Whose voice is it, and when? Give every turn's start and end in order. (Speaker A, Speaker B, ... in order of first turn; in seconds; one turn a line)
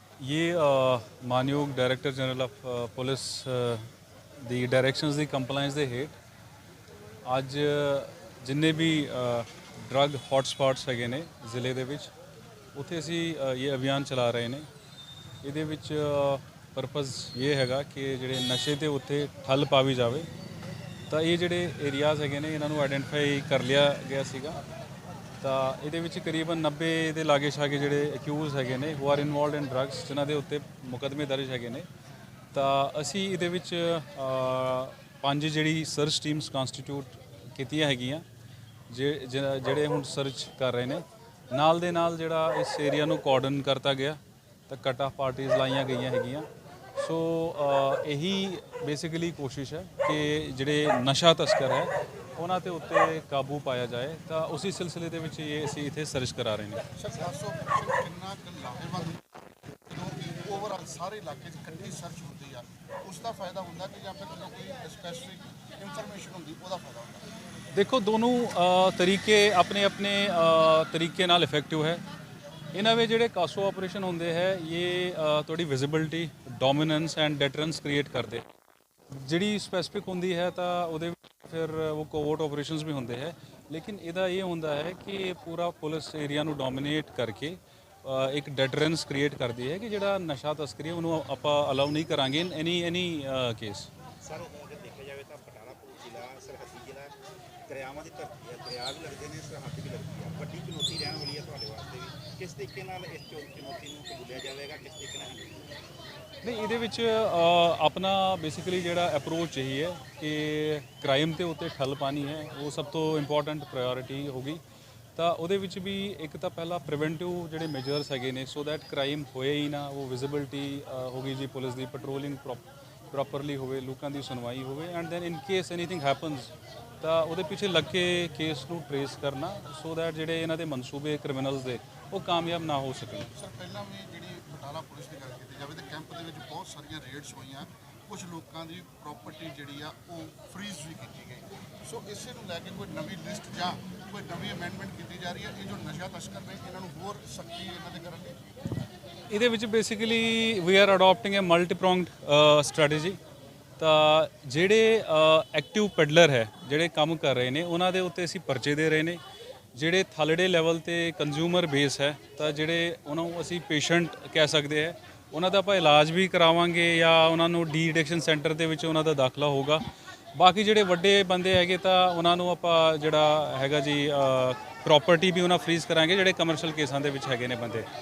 Speaker A: 0.2-3.9
Speaker A: 4.4-6.2
Speaker A: 7.2-12.1
Speaker A: 12.8-14.7
Speaker A: 15.4-20.3
Speaker A: 21.1-24.6
Speaker A: 25.4-31.9
Speaker A: 32.5-38.2
Speaker A: 38.9-56.9
Speaker B: 57.0-59.3
Speaker B: 59.9-67.3
Speaker A: 67.7-72.0
Speaker A: 72.7-78.5
Speaker A: 79.1-93.9
Speaker C: 94.2-97.2
Speaker C: 97.7-105.7
Speaker A: 106.4-114.6
Speaker A: 115.2-133.3
Speaker B: 133.3-148.4
Speaker A: 149.3-153.2
Speaker A: 153.8-159.2
Speaker A: 159.8-169.8
Speaker A: 170.3-177.9